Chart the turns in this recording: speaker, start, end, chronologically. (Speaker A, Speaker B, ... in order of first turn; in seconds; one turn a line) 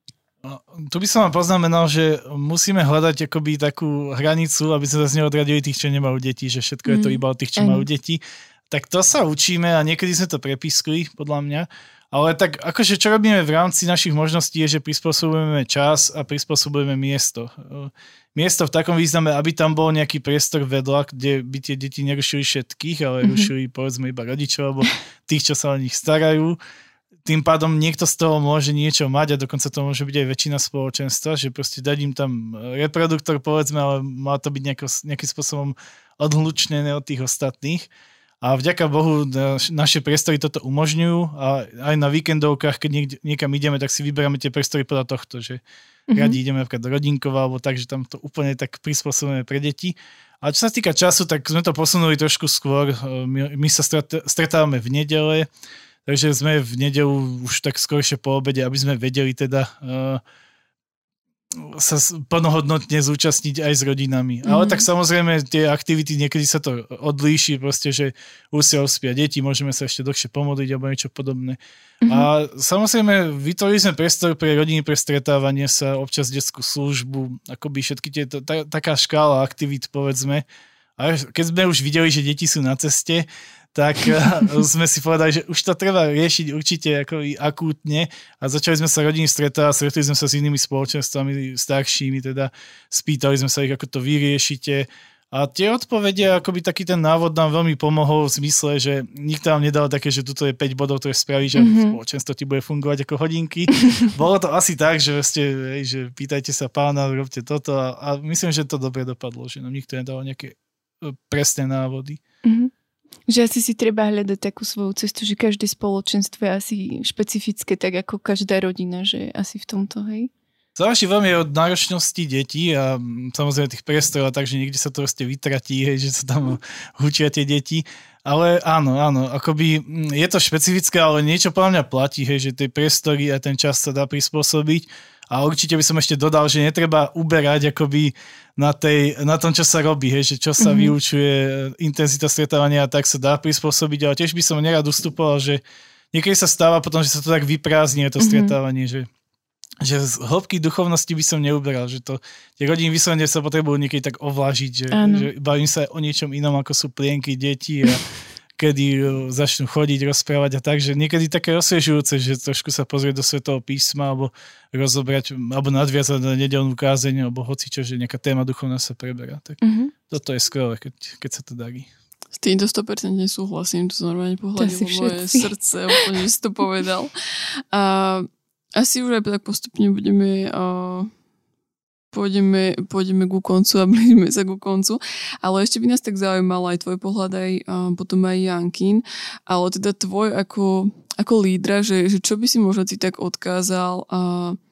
Speaker A: 0.5-26.6
Speaker B: 6.9-7.8
Speaker B: 23.2-23.5
Speaker A: 27.2-37.9
Speaker A: 38.4-45.6
Speaker B: 46.1-46.4
Speaker A: 46.1-55.5
Speaker A: 56.1-60.2
Speaker A: 61.6-80.5
Speaker B: 64.5-64.8
Speaker B: 72.0-72.3
Speaker A: 81.0-112.2
Speaker B: 101.6-102.0
Speaker B: 112.4-112.7
Speaker B: 113.3-120.3
Speaker A: 120.8-145.6
Speaker B: 140.6-140.9
Speaker A: 146.1-149.1
Speaker B: 148.2-148.6
Speaker A: 149.8-158.0
Speaker B: 154.9-155.3
Speaker A: 158.6-171.9
Speaker B: 169.6-169.9
Speaker C: 172.4-177.1
Speaker B: 174.6-175.5
Speaker C: 177.7-181.1
Speaker C: 182.1-194.6